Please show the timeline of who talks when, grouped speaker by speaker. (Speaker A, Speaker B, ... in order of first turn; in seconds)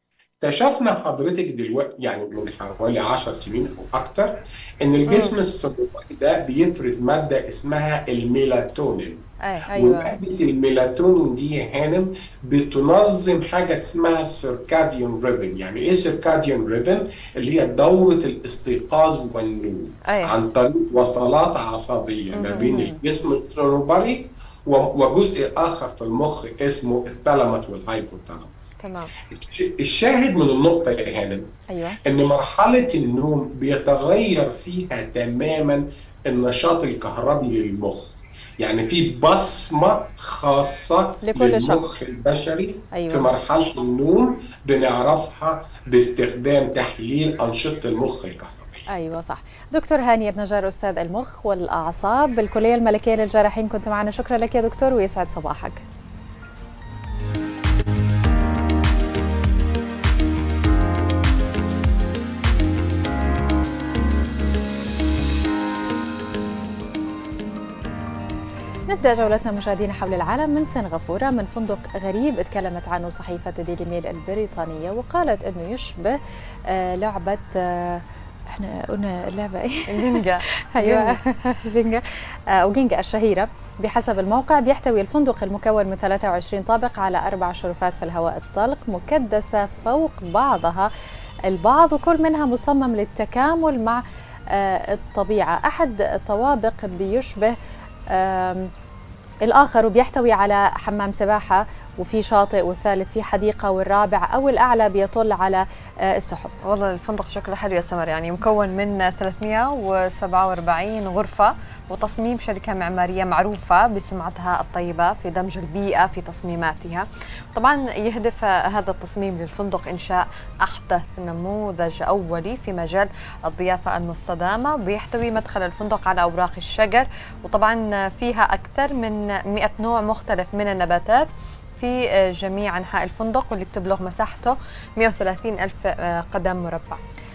Speaker A: 0.4-9.2, 9.8-28.8, 29.3-31.5, 32.0-48.8
Speaker B: 5.1-5.3, 20.1-20.4, 22.3-22.9, 28.8-29.1, 79.9-81.2, 106.7-137.0
Speaker C: 9.7-10.2, 22.5-23.0, 31.7-32.0, 41.2-42.1, 42.9-43.3, 48.9-55.8, 68.9-76.2, 76.7-80.2, 80.7-90.9, 91.5-97.5, 98.1-98.7, 99.5-106.5